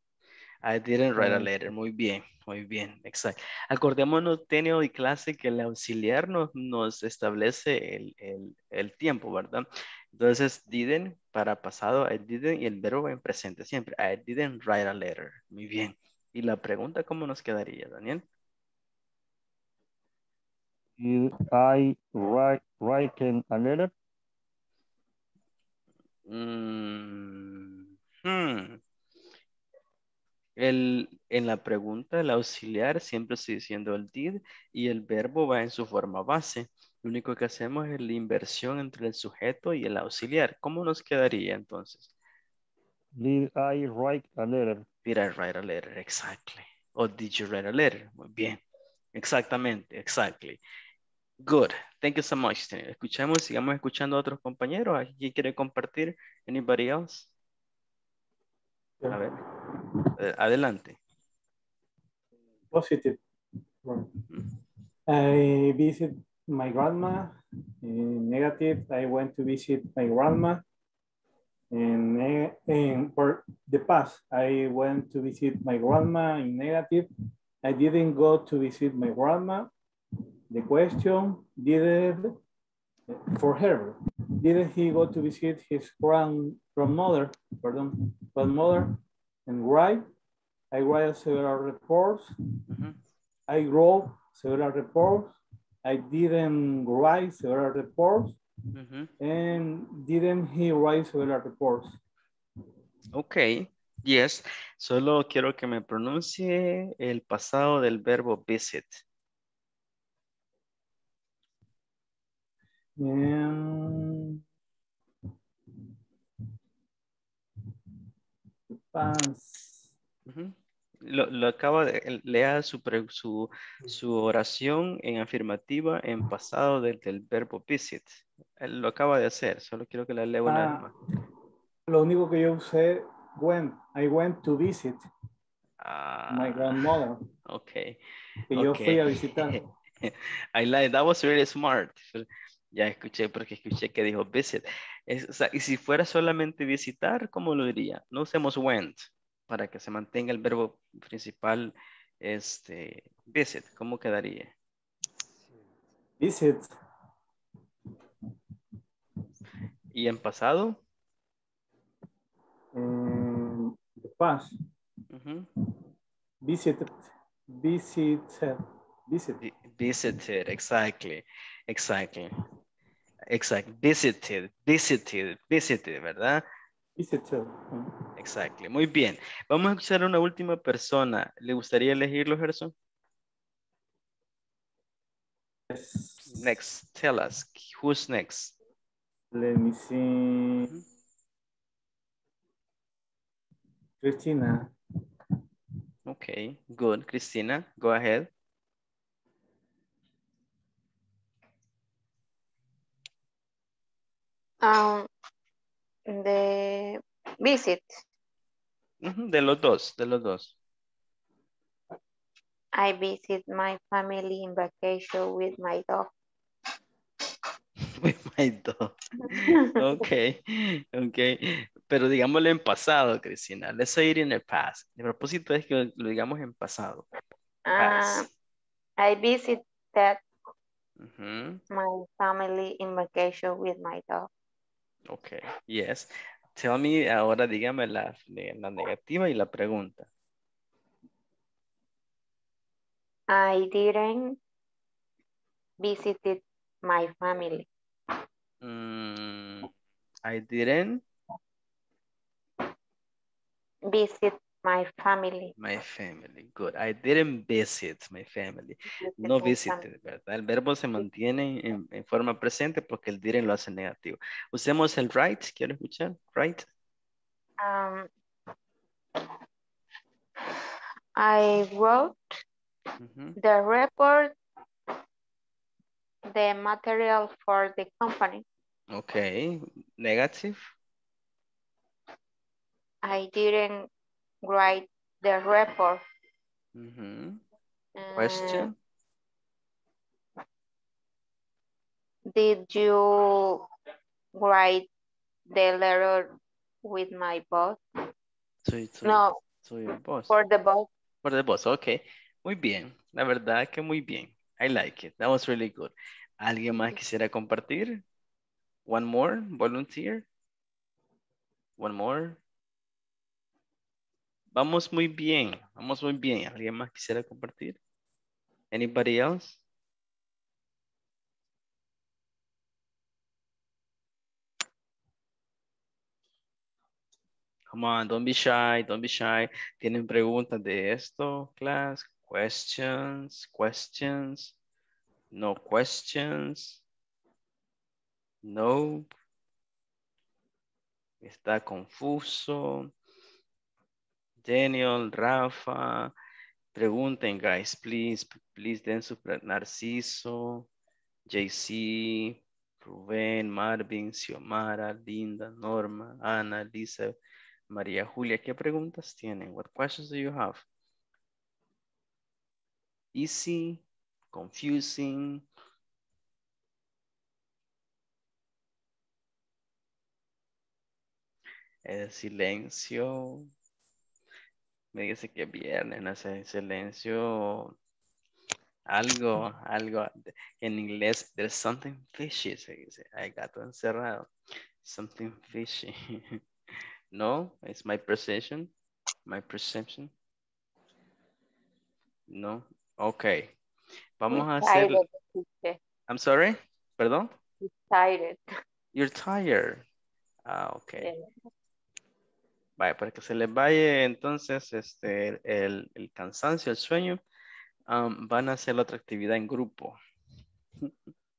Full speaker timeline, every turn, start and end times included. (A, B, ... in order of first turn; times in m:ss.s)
0:00.7-0:18.2 A
0:01.2-0:01.5 B
0:21.0-0:23.9 B
0:26.3-0:28.8 A
0:30.6-0:42.1 A
0:43.2-0:44.8 B
0:45.0-0:48.6 A
0:49.1-0:50.6 A
0:51.4-0:57.3 A
0:59.0-0:59.3 C
0:59.1-0:59.4 A
1:00.2-1:01.0 A
1:02.7-1:03.2 C
1:03.8-1:04.1 C
1:05.1-1:10.6 C
1:11.7-1:17.1 C
1:17.6-1:19.7 C
1:20.5-1:22.4 C
1:23.1-1:30.0 C
1:30.7-1:32.3 C
1:32.7-1:33.0 A
1:33.5-1:35.3 C
1:35.8-1:38.4 C
1:38.8-1:39.1 A
1:39.2-1:42.0 C
1:43.1-1:49.0 A
1:53.0-1:54.4 C
1:58.9-1:59.9 C
2:00.3-2:10.9 A
2:10.4-2:10.9 C
2:11.9-2:15.0 C
2:15.8-2:16.9 A
2:16.3-2:17.2 C
2:17.5-2:18.0 A
2:18.5-2:19.6 C
2:18.5-2:34.5 A
2:36.2-2:36.7 C
2:39.9-2:40.8 A
2:42.7-2:44.5 C
2:45.1-2:45.5 A
2:46.4-2:48.6 C
2:49.1-2:49.4 C
2:49.4-2:52.3 A
2:53.3-2:56.4 A
2:57.0-2:57.9 C
2:58.2-3:02.7 A
3:05.7-3:06.5 C
3:06.3-3:08.5 A
3:09.3-3:10.8 C
3:14.0-3:14.7 C
3:16.0-3:18.3 A
3:24.6-3:25.1 D
3:26.1-3:28.0 D
3:29.0-3:30.5 A
3:32.8-3:36.1 D
3:37.9-3:47.0 A
3:47.7-3:48.3 D
3:47.8-3:48.3 A
3:49.0-3:50.2 D
3:51.0-3:51.6 A
3:51.7-3:54.3 D
3:55.1-4:00.1 A
4:03.3-4:04.4 D
4:05.8-4:07.6 D
4:08.6-4:09.7 A
4:10.3-4:11.0 A
4:13.9-4:15.5 D
4:15.6-4:26.6 A
4:19.0-4:19.8 D
4:27.6-4:28.1 D
4:31.2-4:32.2 D
4:33.0-4:33.4 A
4:33.4-4:34.3 D
4:36.3-4:38.4 D
4:38.9-4:40.7 A
4:43.0-4:43.9 D
4:44.4-4:46.0 D
4:46.7-4:47.4 A
4:48.0-4:48.7 D
4:48.2-4:48.7 A
4:52.3-4:53.6 D
4:54.4-4:54.9 D
4:55.5-4:56.3 D
4:56.8-4:57.8 D
4:58.6-5:00.3 A
4:59.0-4:59.4 D
5:00.3-5:00.9 D
5:01.2-5:08.0 A
5:06.7-5:07.0 D
5:08.9-5:10.2 A
5:11.8-5:12.4 A
5:14.5-5:17.8 A
5:18.7-5:19.6 A
5:27.7-5:34.5 A
5:35.3-5:36.8 A
5:38.4-5:39.1 A
5:41.2-5:42.9 A
5:44.4-5:46.1 A
5:46.7-5:50.7 A
5:51.3-5:57.1 A
5:57.7-6:00.6 A
6:03.1-6:05.4 A
6:11.9-6:13.5 A
6:14.9-6:17.7 A
6:18.9-6:24.3 A
6:24.8-6:26.4 A
6:27.1-6:28.7 A
6:29.2-6:30.1 A
6:32.3-6:33.5 A
6:34.2-6:35.0 A
6:34.3-6:35.8 D
6:36.1-6:37.3 A
6:37.6-6:38.4 D
6:38.9-6:39.8 A
6:40.5-6:41.1 A
6:41.0-6:41.3 D
6:42.8-6:47.2 A
6:47.9-6:50.0 A